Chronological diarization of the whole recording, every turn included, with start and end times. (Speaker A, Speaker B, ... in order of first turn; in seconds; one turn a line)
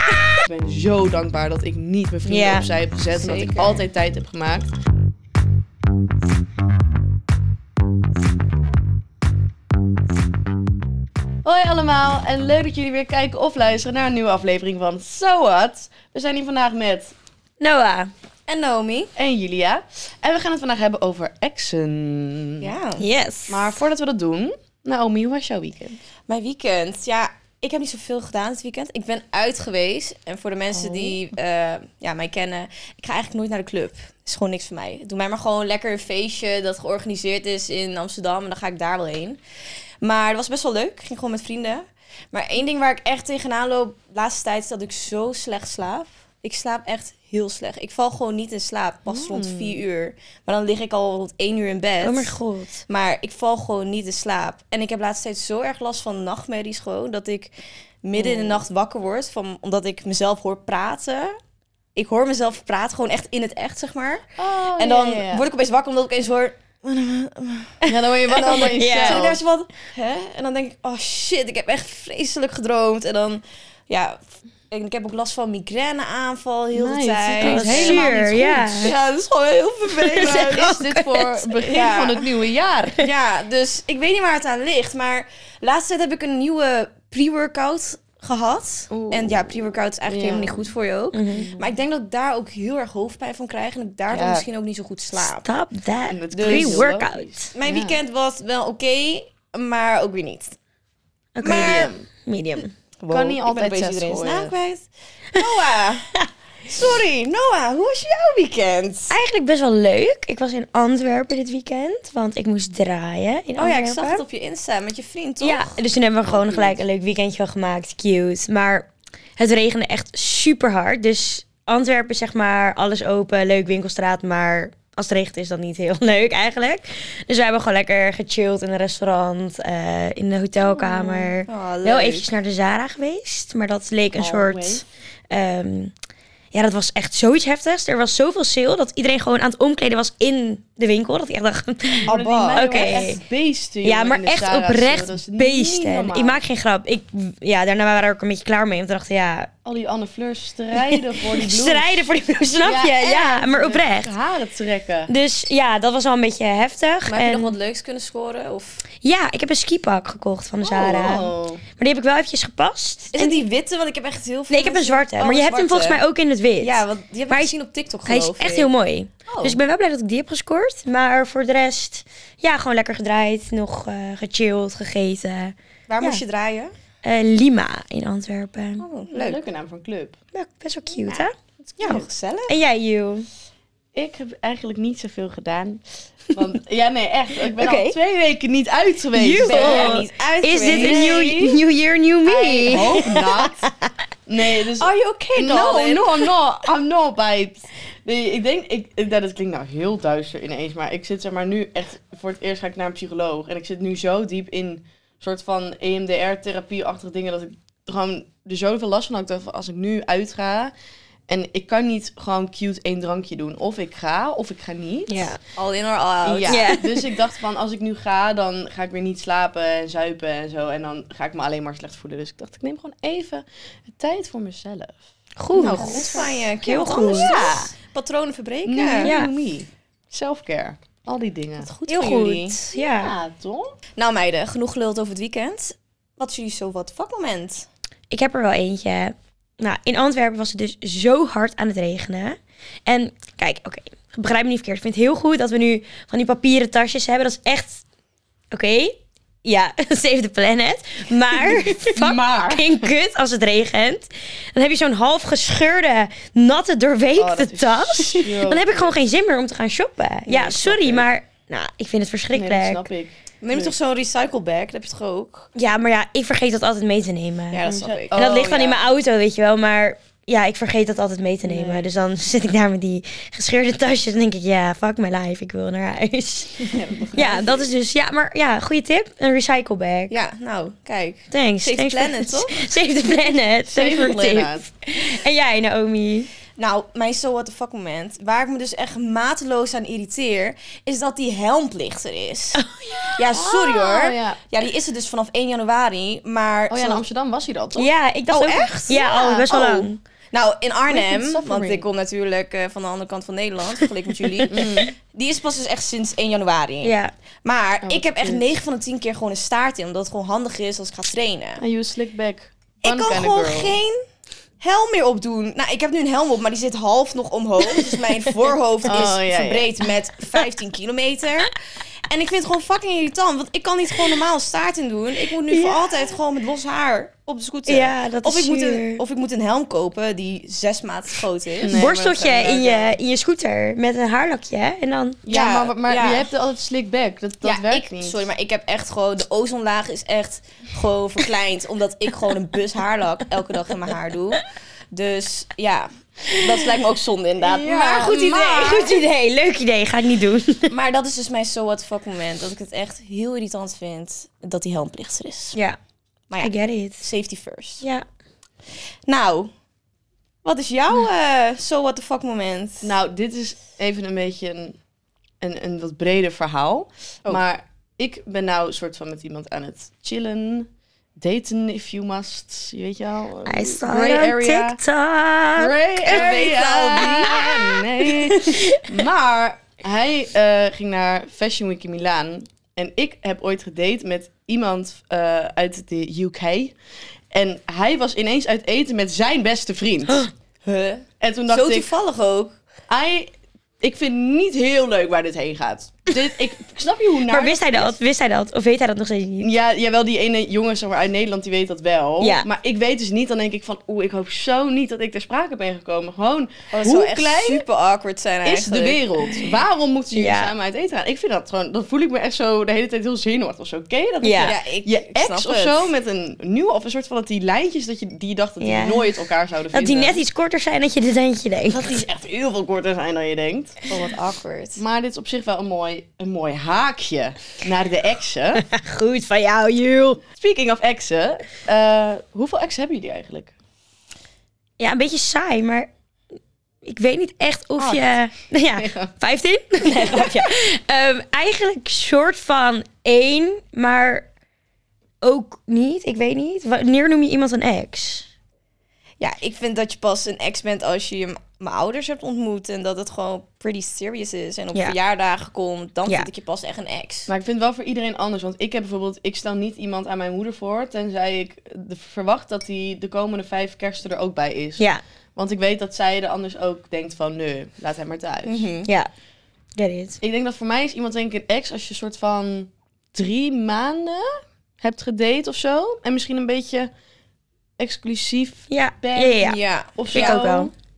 Speaker A: 0.4-4.7
Speaker B: 2.3-2.7
Speaker C: 3.1-3.8
Speaker A: 11.4-17.1
Speaker B: 17.6-18.1
Speaker C: 18.5-19.1
Speaker A: 19.1-22.7
Speaker C: 22.6-23.0
Speaker B: 23.0-23.8
Speaker A: 23.5-26.0
Speaker C: 26.3-39.4
Speaker A: 30.8-31.2
Speaker C: 40.0-52.4
Speaker A: 49.1-49.8
Speaker B: 52.0-52.8
Speaker C: 52.9-57.5
Speaker C: 58.0-61.3
Speaker A: 58.1-58.6
Speaker C: 61.9-64.2
Speaker A: 64.4-65.5
Speaker C: 64.8-80.8
Speaker A: 67.8-69.4
Speaker B: 68.3-69.2
Speaker A: 76.7-78.9
Speaker B: 77.4-78.9
Speaker B: 80.0-81.2
Speaker A: 80.1-83.0
Speaker C: 81.5-82.3
Speaker C: 83.0-95.4
Speaker A: 88.9-90.7
Speaker B: 91.1-91.5
Speaker A: 91.3-91.8
Speaker A: 94.1-94.5
Speaker B: 95.2-97.5
Speaker A: 96.1-98.0
Speaker C: 96.3-96.9
Speaker C: 97.5-100.6
Speaker B: 101.4-102.7
Speaker C: 101.4-101.9
Speaker A: 101.4-102.0
Speaker C: 103.0-106.1
Speaker A: 103.1-104.5
Speaker C: 106.7-109.1
Speaker B: 109.1-114.2
Speaker C: 113.6-115.8
Speaker B: 115.4-135.9
Speaker A: 116.3-116.8
Speaker A: 130.6-131.3
Speaker C: 131.4-132.3
Speaker A: 134.2-134.8
Speaker B: 136.5-143.2
Speaker A: 142.0-146.4
Speaker C: 142.1-143.0
Speaker B: 143.8-149.5
Speaker A: 149.6-155.1
Speaker B: 150.9-154.1
Speaker B: 155.1-157.5
Speaker C: 157.1-158.8
Speaker B: 159.0-163.4
Speaker A: 160.6-161.6
Speaker C: 163.1-166.0
Speaker B: 164.5-167.5
Speaker C: 166.6-168.7
Speaker B: 168.1-176.2
Speaker C: 175.9-176.7
Speaker B: 177.0-178.8
Speaker C: 178.8-179.4
Speaker A: 179.1-180.2
Speaker B: 180.3-181.3
Speaker A: 181.1-182.0
Speaker C: 181.8-182.5
Speaker B: 181.9-183.2
Speaker A: 183.9-190.0
Speaker B: 187.5-187.9
Speaker B: 189.1-193.9
Speaker C: 189.4-191.3
Speaker A: 190.6-191.6
Speaker A: 192.2-193.7
Speaker A: 194.3-210.7
Speaker C: 194.8-196.3
Speaker A: 211.3-215.3
Speaker B: 215.1-215.4
Speaker C: 215.6-216.6
Speaker A: 216.2-225.0
Speaker B: 216.5-217.0
Speaker B: 225.4-227.3
Speaker C: 225.5-229.1
Speaker A: 225.5-227.7
Speaker A: 228.7-233.7
Speaker B: 229.0-229.3
Speaker C: 231.6-232.6
Speaker B: 231.9-233.1
Speaker C: 234.0-237.7
Speaker B: 238.1-247.8
Speaker B: 248.5-262.9
Speaker A: 251.3-252.9
Speaker A: 257.1-258.9
Speaker A: 260.3-261.1
Speaker A: 262.3-263.7
Speaker C: 263.4-265.5
Speaker B: 265.5-280.1
Speaker C: 267.5-268.2
Speaker A: 267.6-268.8
Speaker A: 271.4-271.9
Speaker A: 276.6-277.6
Speaker C: 280.1-282.5
Speaker B: 281.3-286.3
Speaker A: 283.7-284.6
Speaker C: 286.6-297.0
Speaker B: 292.6-293.2
Speaker A: 293.3-294.4
Speaker A: 296.7-297.9
Speaker B: 297.8-300.0
Speaker C: 298.3-311.6
Speaker A: 298.9-299.5
Speaker A: 300.9-301.9
Speaker A: 304.5-304.9
Speaker B: 306.8-307.1
Speaker A: 307.8-308.4
Speaker A: 311.6-313.8
Speaker C: 312.8-314.0
Speaker C: 314.6-331.9
Speaker A: 318.8-319.8
Speaker B: 325.5-326.0
Speaker B: 327.7-329.0
Speaker A: 331.6-333.0
Speaker B: 331.7-335.2
Speaker A: 335.2-338.3
Speaker C: 335.3-336.3
Speaker C: 337.4-349.0
Speaker A: 347.4-348.2
Speaker B: 347.9-350.7
Speaker C: 350.7-355.6
Speaker C: 356.3-357.8
Speaker B: 356.4-357.0
Speaker C: 359.1-359.5
Speaker C: 360.4-362.9
Speaker A: 362.8-364.8
Speaker A: 365.4-374.8
Speaker B: 373.4-376.2
Speaker A: 375.6-386.7
Speaker C: 376.1-378.1
Speaker B: 378.4-378.8
Speaker A: 387.3-390.2
Speaker C: 390.6-392.6
Speaker A: 391.2-391.9
Speaker A: 392.9-397.9
Speaker B: 397.3-399.5
Speaker A: 399.4-407.6
Speaker B: 402.2-402.5
Speaker C: 406.7-409.0
Speaker A: 408.4-420.2
Speaker B: 410.1-410.5
Speaker B: 414.2-414.5
Speaker C: 414.4-415.8
Speaker B: 418.6-419.1
Speaker B: 419.7-422.0
Speaker A: 421.7-423.9
Speaker C: 423.9-424.8
Speaker A: 424.8-428.6
Speaker B: 428.6-430.2
Speaker A: 430.4-433.5
Speaker B: 434.8-435.9
Speaker B: 436.8-444.2
Speaker A: 438.8-439.1
Speaker A: 439.9-440.4
Speaker B: 445.2-448.3
Speaker C: 449.2-457.3
Speaker A: 457.3-464.8
Speaker A: 465.4-468.7
Speaker C: 468.4-468.9
Speaker B: 468.8-469.1
Speaker B: 469.8-470.2
Speaker A: 470.2-474.2
Speaker A: 474.8-476.9
Speaker A: 477.8-480.7
Speaker B: 478.7-479.6
Speaker C: 479.4-480.6
Speaker B: 480.1-480.7